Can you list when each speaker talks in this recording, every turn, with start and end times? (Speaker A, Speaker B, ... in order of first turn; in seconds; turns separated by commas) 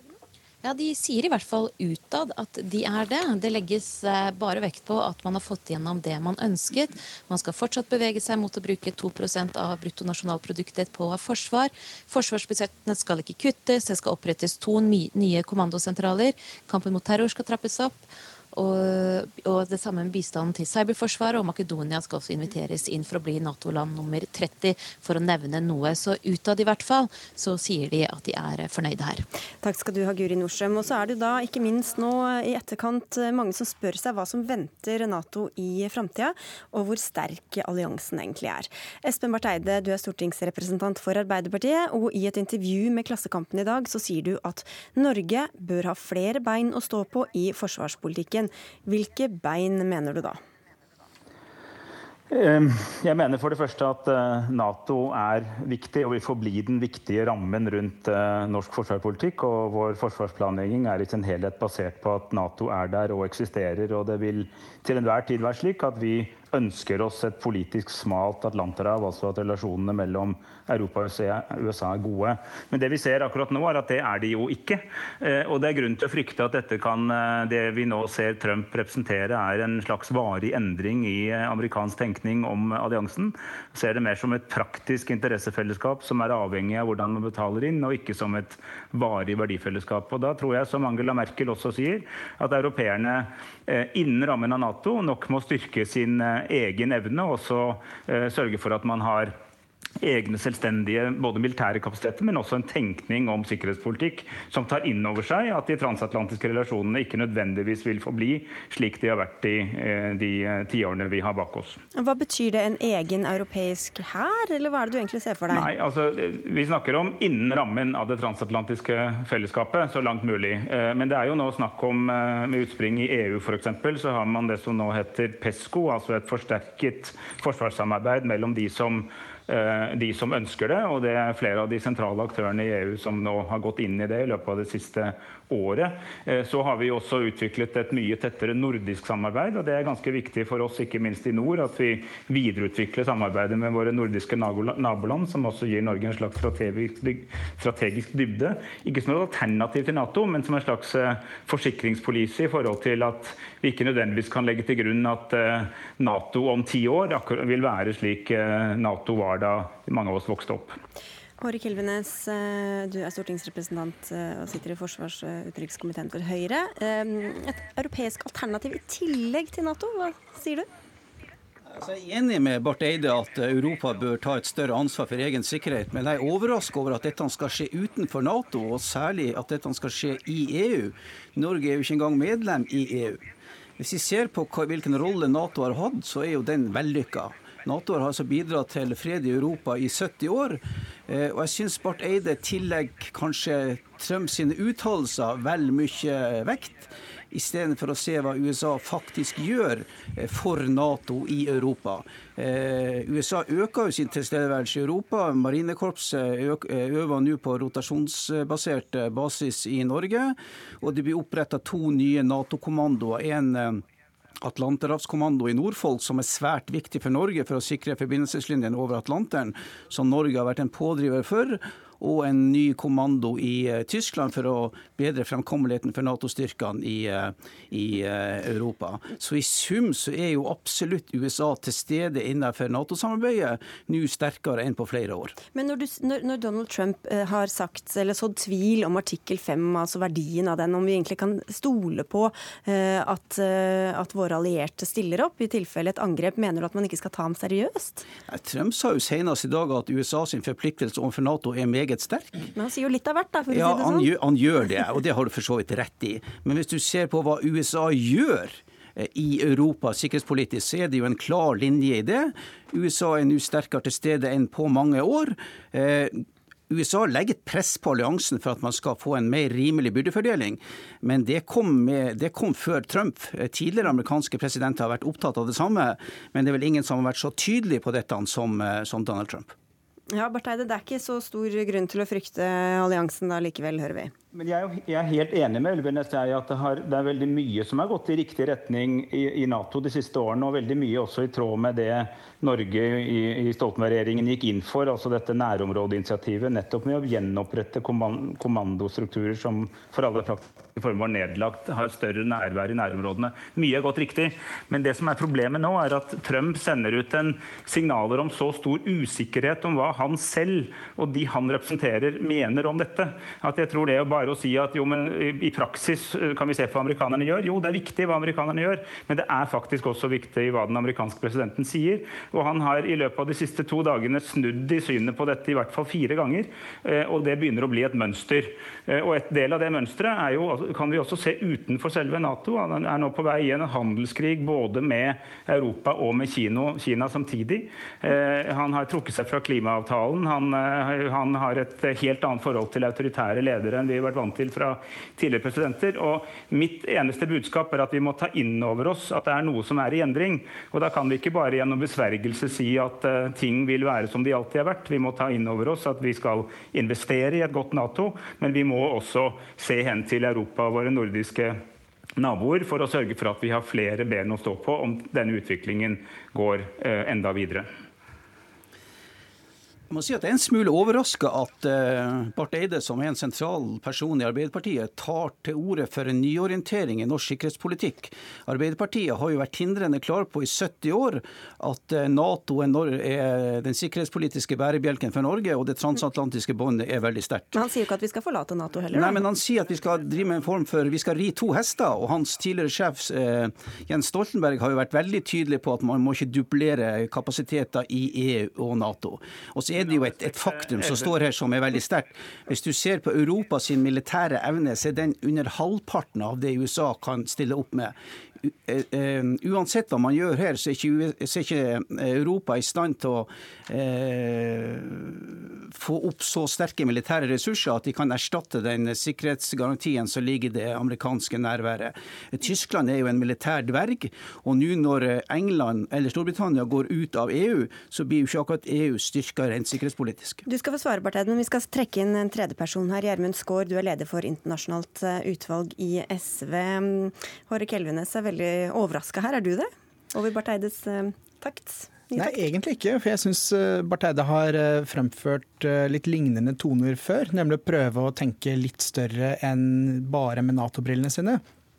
Speaker A: 0.6-29.2, Speaker B: 29.6-50.4, Speaker C: 52.3-99.3, Speaker C: 100.0-111.8, Speaker B: 111.9-115.7, Speaker C: 115.5-160.8, Speaker B: 161.4-170.7, Speaker D: 171.7-183.2, Speaker D: 183.8-213.8, Speaker D: 214.4-235.4, Speaker B: 235.5-248.0, Speaker D: 248.3-252.5, Speaker B: 252.5-254.1, Speaker D: 253.5-279.5, Speaker B: 280.1-284.1, Speaker C: 284.3-361.6, Speaker C: 362.2-367.7, Speaker D: 369.9-387.5, Speaker B: 387.5-389.2, Speaker D: 388.9-430.4, Speaker C: 399.9-401.1, Speaker B: 430.4-442.4, Speaker E: 442.1-451.4